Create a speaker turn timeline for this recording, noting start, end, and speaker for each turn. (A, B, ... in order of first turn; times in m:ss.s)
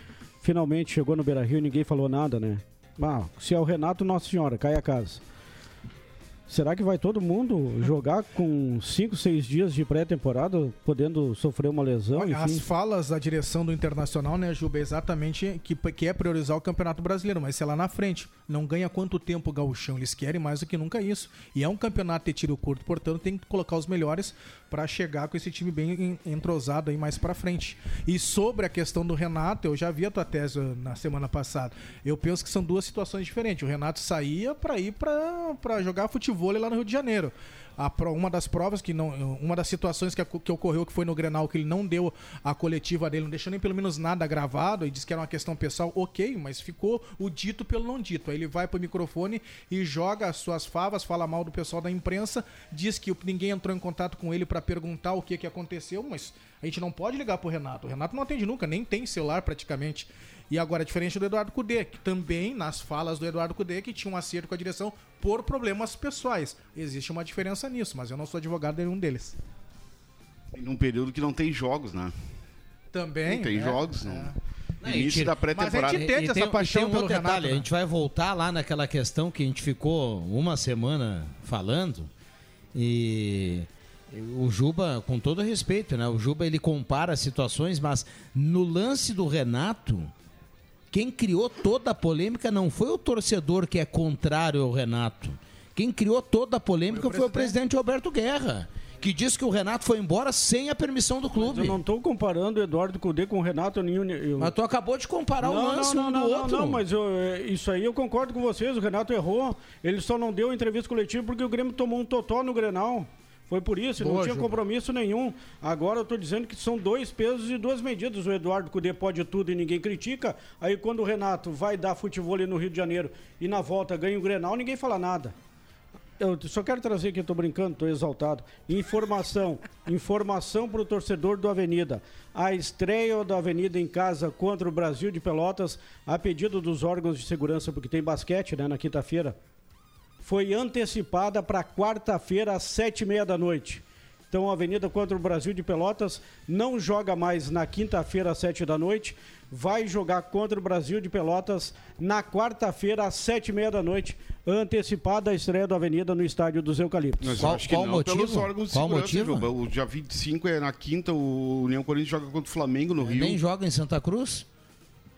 0:00.4-0:05.2 A
0:06.5-0:12.6 A
0:12.2-1:09.4 B
1:10.5-1:12.2 C
1:12.9-1:14.4 B
1:13.2-1:16.0 C
1:14.8-1:22.1 D
1:15.5-1:17.7 B
1:22.7-1:30.1 D
1:30.9-1:41.8 D
1:36.9-1:37.6 B
1:41.4-1:44.5 A
1:44.4-1:46.8 D
1:45.4-2:05.4 A
1:54.0-1:54.5 B
2:06.2-2:19.4 A
2:20.2-2:37.4 A
2:37.2-2:43.4 C
2:37.4-2:39.5 D
2:43.0-2:44.5 D